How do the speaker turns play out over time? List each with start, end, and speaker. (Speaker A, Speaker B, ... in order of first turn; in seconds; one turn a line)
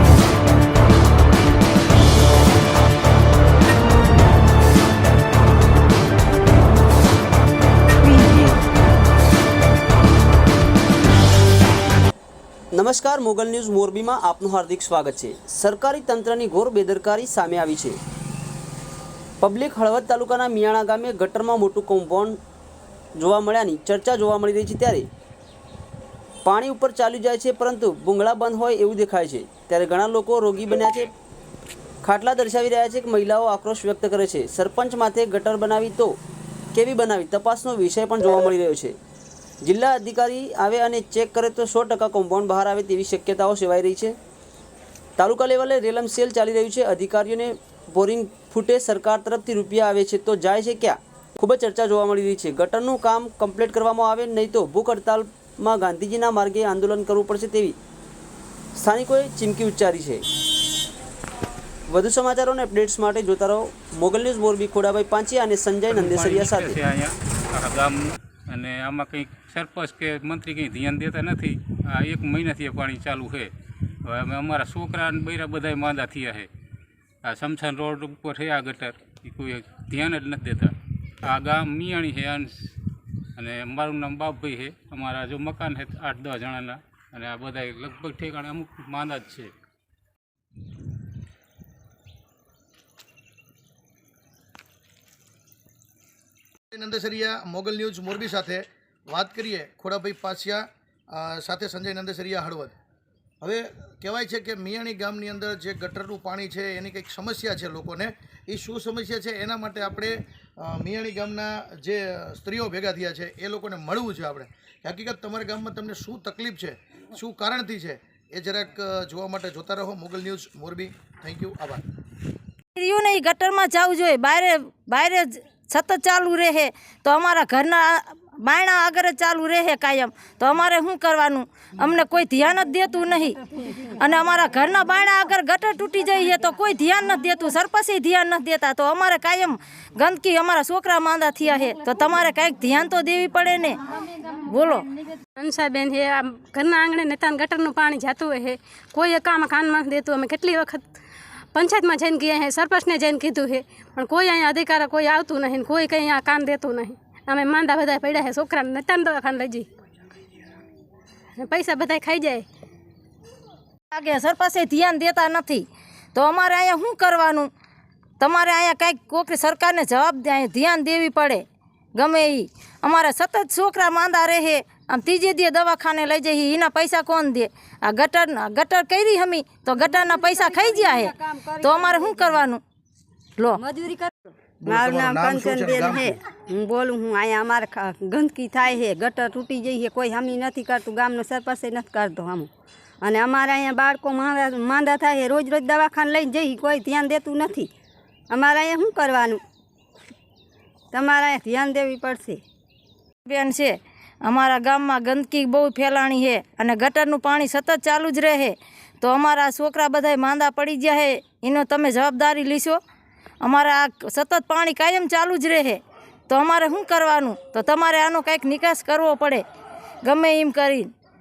Speaker A: 12.7-18.0
Speaker A: 19.4-22.4
Speaker A: 23.2-25.1
Speaker A: 26.4-31.1
Speaker A: 32.0-36.2
Speaker A: 36.7-39.0
Speaker A: 39.6-44.1
Speaker A: 45.2-57.8
Speaker A: 58.8-60.2
Speaker A: 61.9-66.8
Speaker B: 65.9-73.5
Speaker B: 74.0-76.5
Speaker B: 77.2-82.7
Speaker B: 83.4-89.5
Speaker C: 96.7-102.8
Speaker C: 103.4-121.8
Speaker D: 122.8-143.8
Speaker D: 144.4-145.0
Speaker E: 145.4-150.8
Speaker E: 151.5-159.7
Speaker E: 161.4-162.4
Speaker D: 163.9-167.5
Speaker D: 168.2-182.6
Speaker F: 179.9-182.3
Speaker F: 183.6-192.5
Speaker C: 184.6-186.2
Speaker F: 193.0-197.7
Speaker F: 198.3-199.4
Speaker F: 200.9-202.4
Speaker D: 203.2-212.8
Speaker D: 213.4-219.4
Speaker D: 220.0-220.9